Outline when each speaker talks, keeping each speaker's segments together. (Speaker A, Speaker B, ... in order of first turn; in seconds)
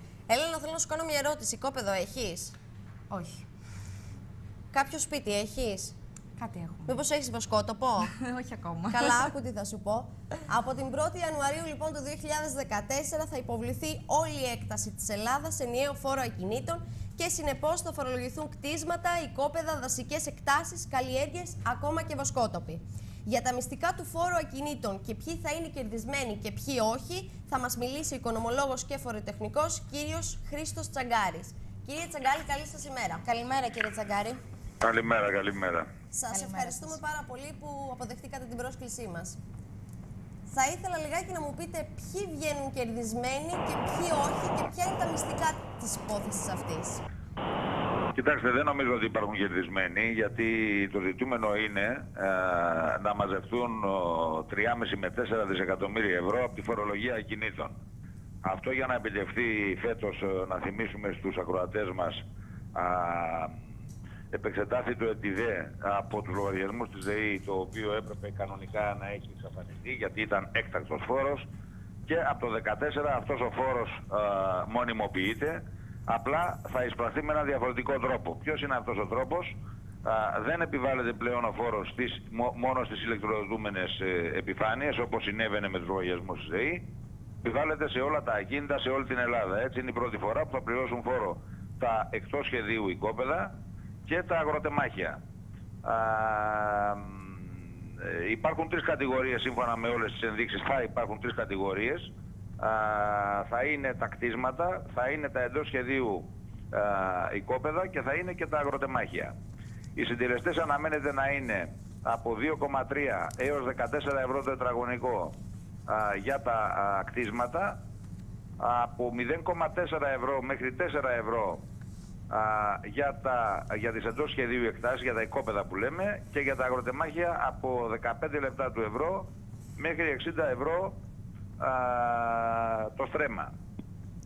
Speaker A: 0.3-2.5, 4.7-6.0, 6.9-8.1, 8.9-33.2, 36.1-39.4, 40.5-47.0
Speaker B: 3.1-3.4, 6.4-7.0, 8.0-9.3, 33.2-34.4, 36.3-37.0
Speaker C: 34.8-35.9, 48.1-57.8, 58.4-62.2, 62.7-63.6, 64.3-71.5, 72.1-86.9, 87.4-93.5, 94.1-95.2, 95.8-109.3, 110.0-115.4, 115.9-117.8, 118.6-121.6, 122.3-131.0, 131.6-133.5